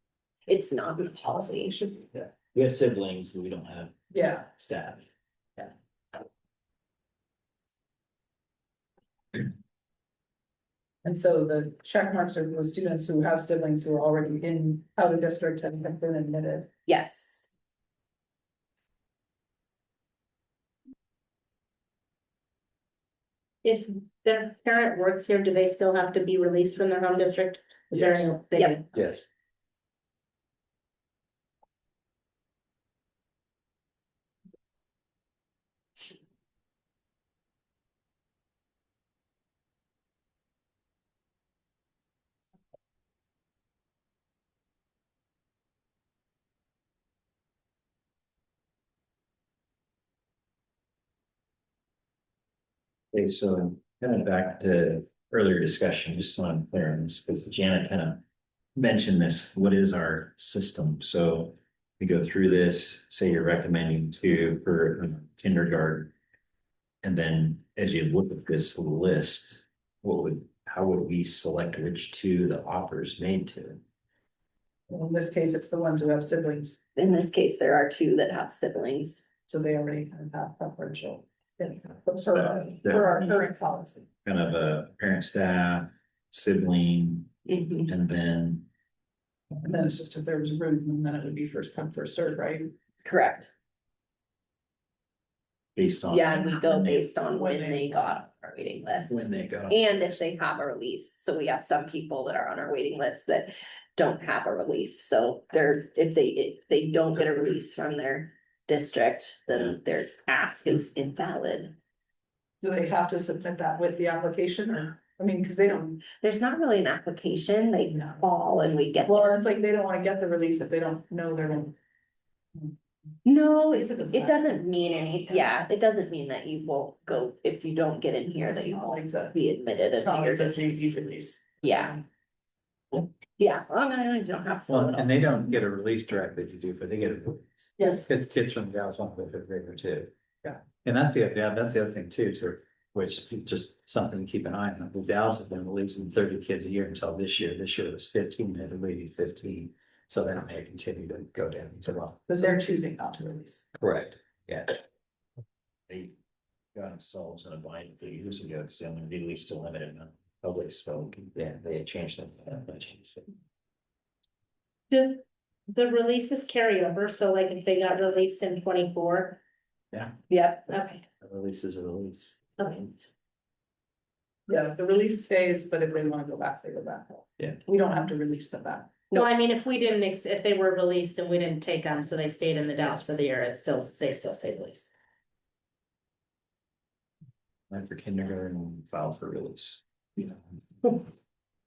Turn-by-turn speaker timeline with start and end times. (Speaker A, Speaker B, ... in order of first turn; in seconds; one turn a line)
Speaker A: 0.5-1.8
Speaker B: 1.3-2.0
Speaker C: 2.5-5.0
Speaker B: 4.1-4.4
Speaker B: 11.1-16.7
Speaker A: 16.9-17.5
Speaker D: 23.6-28.9
Speaker E: 28.9-29.3
Speaker C: 53.1-58.2
Speaker C: 58.8-66.1
Speaker C: 67.0-73.8
Speaker B: 74.9-76.8
Speaker A: 77.0-79.3
Speaker B: 79.5-84.1
Speaker C: 82.2-83.3
Speaker C: 84.2-88.7
Speaker A: 87.5-87.9
Speaker B: 89.7-92.7
Speaker A: 93.0-93.5
Speaker C: 95.8-97.0
Speaker A: 96.1-111.8
Speaker B: 97.3-97.8
Speaker C: 99.1-100.2
Speaker B: 112.6-116.0
Speaker A: 116.1-119.4
Speaker B: 119.0-121.8
Speaker A: 123.2-131.0
Speaker B: 123.8-124.7
Speaker B: 128.4-129.3
Speaker B: 129.9-132.0
Speaker A: 131.6-132.0
Speaker A: 133.4-135.2
Speaker E: 134.7-152.3
Speaker D: 137.8-138.1
Speaker B: 152.3-153.6
Speaker C: 155.9-156.2
Speaker C: 156.7-163.3
Speaker D: 164.9-169.4
Speaker A: 170.3-170.7
Speaker D: 170.7-171.0
Speaker E: 171.2-172.5
Speaker B: 174.5-178.9
Speaker D: 179.1-184.9
Speaker C: 187.7-189.8